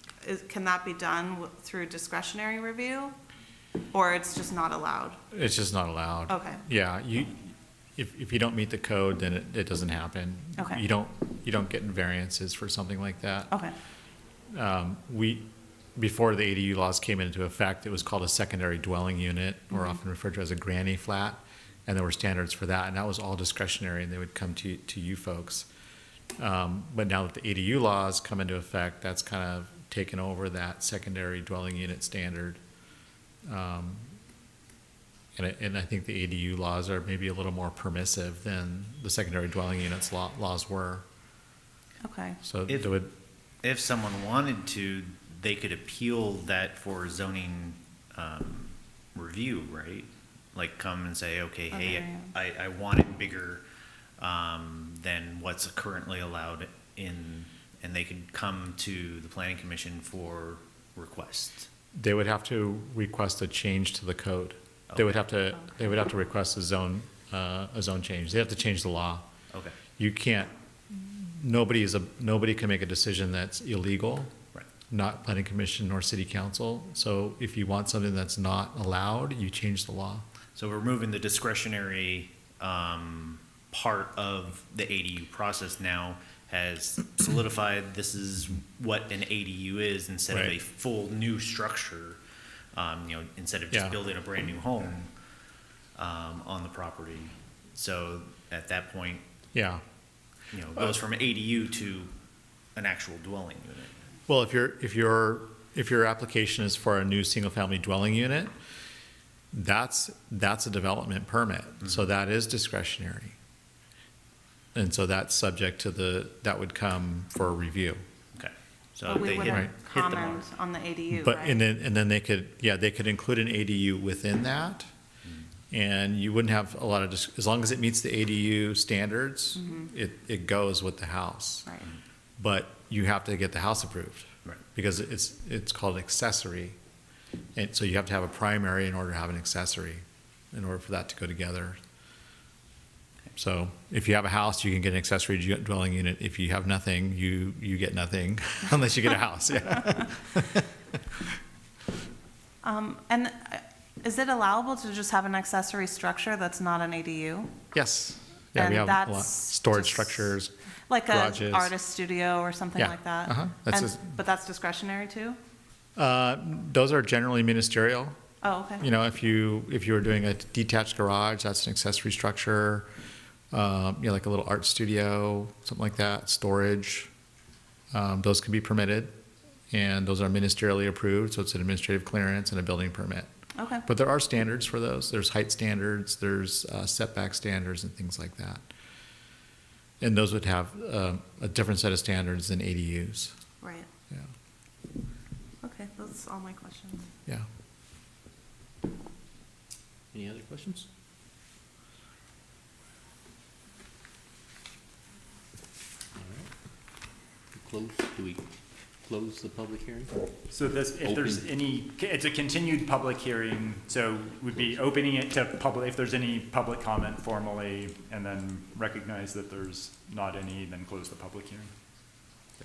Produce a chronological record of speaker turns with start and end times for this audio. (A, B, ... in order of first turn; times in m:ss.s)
0:00.2-0:03.2 A
0:03.9-0:05.2 A
0:05.3-0:13.5 B
0:06.3-0:06.6 A
0:14.5-0:25.7 B
0:19.7-0:20.0 A
0:26.4-0:32.6 B
0:33.4-0:34.1 B
0:35.4-0:41.0 B
0:42.0-0:42.4 A
0:42.4-0:43.1 B
0:43.6-0:53.6 C
0:51.7-0:52.3 A
0:54.2-1:01.7 C
1:02.0-1:09.3 B
1:10.0-1:14.3 B
1:14.9-1:20.2 B
1:20.6-1:32.2 C
1:30.3-1:30.6 B
1:32.7-1:35.1 C
1:33.7-1:34.0 B
1:36.0-1:39.2 C
1:39.5-1:39.8 B
1:40.5-1:42.1 C
1:42.8-1:44.0 C
1:44.3-1:48.5 B
1:49.5-1:53.4 B
1:54.8-1:58.0 B
1:58.4-2:00.4 C
1:59.1-2:01.6 A
1:59.5-1:59.7 B
2:01.1-2:04.9 B
2:05.7-2:11.8 B
2:09.6-2:09.9 A
2:12.4-2:16.8 B
2:17.6-2:21.8 B
2:23.4-2:30.6 B
2:32.6-2:37.5 A
2:37.7-2:40.5 B
2:38.6-2:40.3 A
2:40.9-2:45.4 A
2:41.1-2:41.7 B
2:42.8-2:44.1 B
2:46.0-2:48.2 B
2:48.4-2:48.8 A
2:48.8-2:52.9 B
2:53.5-2:57.1 B
2:57.9-2:59.2 B
2:59.7-3:03.3 B
3:03.6-3:03.9 A
3:03.9-3:08.6 B
3:10.0-3:13.3 B
3:13.6-3:13.9 A
3:15.6-3:17.0 A
3:20.1-3:20.9 D
3:26.2-3:26.5 D
3:27.5-3:28.5 D
3:29.0-3:30.2 D
3:30.5-3:41.7 E
3:31.0-3:31.4 D